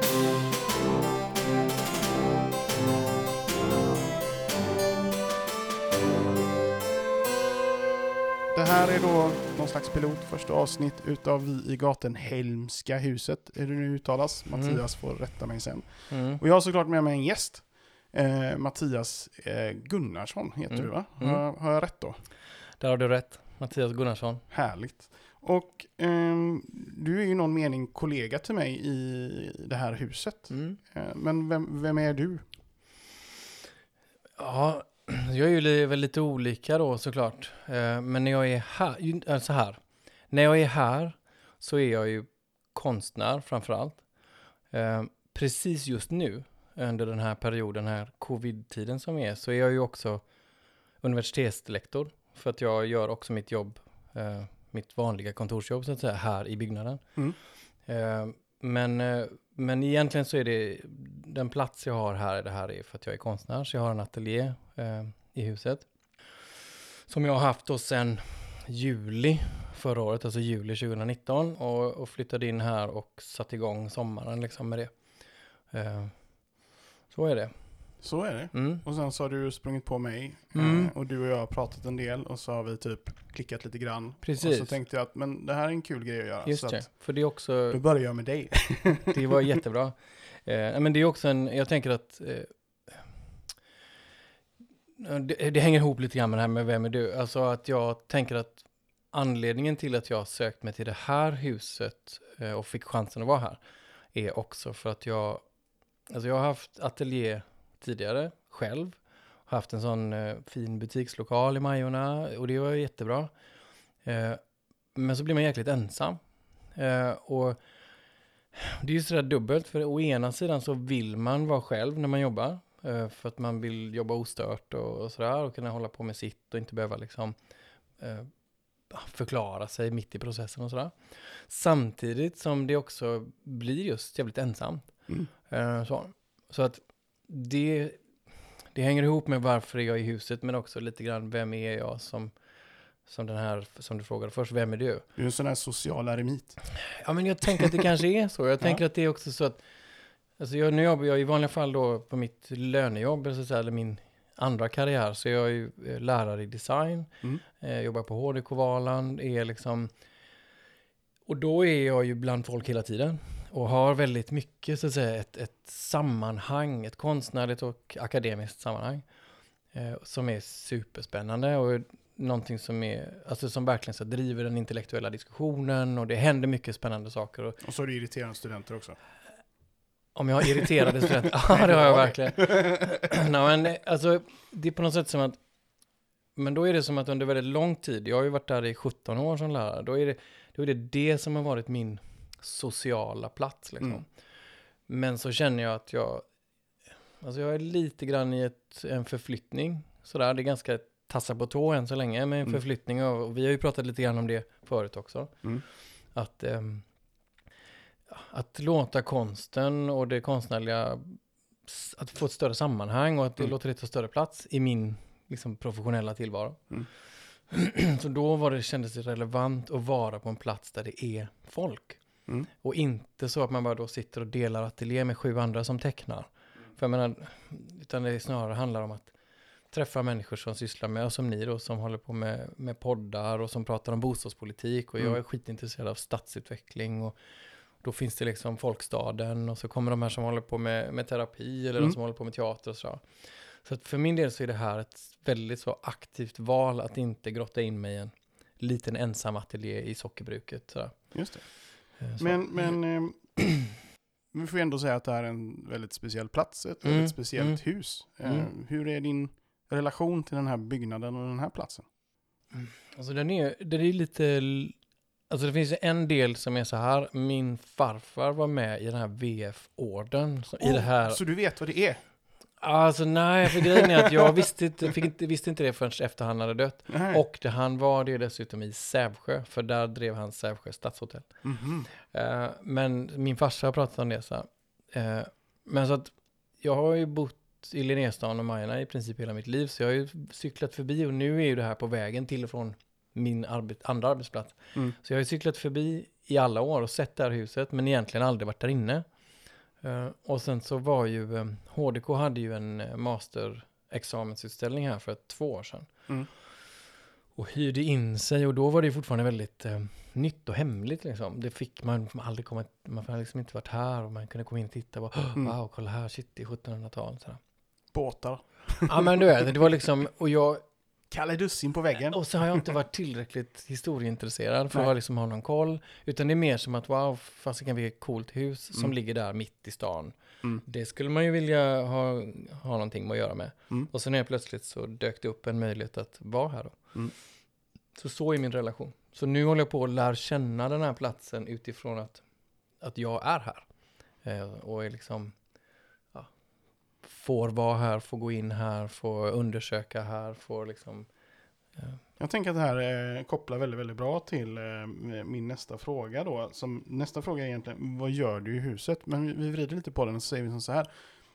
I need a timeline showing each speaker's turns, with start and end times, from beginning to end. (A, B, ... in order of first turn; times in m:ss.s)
0:08.5-0:22.2 A
0:14.5-0:14.8 B
0:16.1-0:16.4 B
0:20.7-0:21.4 B
0:22.8-0:24.4 B
0:24.5-0:32.5 A
0:30.5-0:30.8 B
0:34.4-0:44.0 B
0:44.7-0:50.2 B
0:51.0-0:57.2 B
0:57.8-1:05.9 B
1:07.1-1:15.0 B
1:15.7-1:18.8 B
1:18.0-1:27.2 A
1:20.6-1:20.9 B
1:24.2-1:24.8 B
1:26.4-1:27.8 B
1:27.7-1:29.1 A
1:29.1-1:33.3 B
1:35.0-1:43.6 B
1:44.1-1:45.4 B
1:46.1-1:53.3 B
1:54.0-1:54.4 B
1:55.0-1:56.2 B
1:56.8-1:57.6 B
1:58.5-2:07.4 B
2:08.0-2:08.3 B
2:08.9-2:18.0 B
2:18.7-2:22.3 B
2:23.1-2:25.0 B
2:25.2-2:26.6 A
2:27.0-2:29.6 B
2:30.4-2:39.9 B
2:41.3-2:49.0 B
2:49.7-2:57.6 B
2:57.6-2:59.0 A
3:00.2-3:05.4 B
3:01.5-3:02.8 A
3:06.4-3:14.1 B
3:14.9-3:16.2 B
3:17.2-3:25.5 B
3:26.1-3:26.8 B
3:28.1-3:36.8 B
3:37.5-3:42.0 B
3:42.6-3:49.1 B
3:49.7-3:57.2 B
3:57.8-4:03.0 B
4:03.6-4:12.8 B
4:11.1-4:13.4 A
4:13.4-4:13.7 B
4:14.3-4:21.9 A
4:16.8-4:18.5 B
4:22.5-4:24.8 B
4:25.3-4:31.2 B
4:30.6-4:32.0 A
4:32.6-4:59.0 B
4:36.9-4:37.2 A
4:41.4-4:41.9 A
4:59.8-5:06.1 B
5:07.4-5:17.4 B
5:17.9-5:19.2 A
5:18.9-5:20.6 B
5:21.1-5:22.6 A
5:22.1-5:37.0 B
5:38.0-5:42.2 B
5:42.8-5:43.6 B
5:44.2-5:45.4 B
5:47.0-5:51.1 B
5:51.8-5:52.0 B
5:52.2-6:00.9 A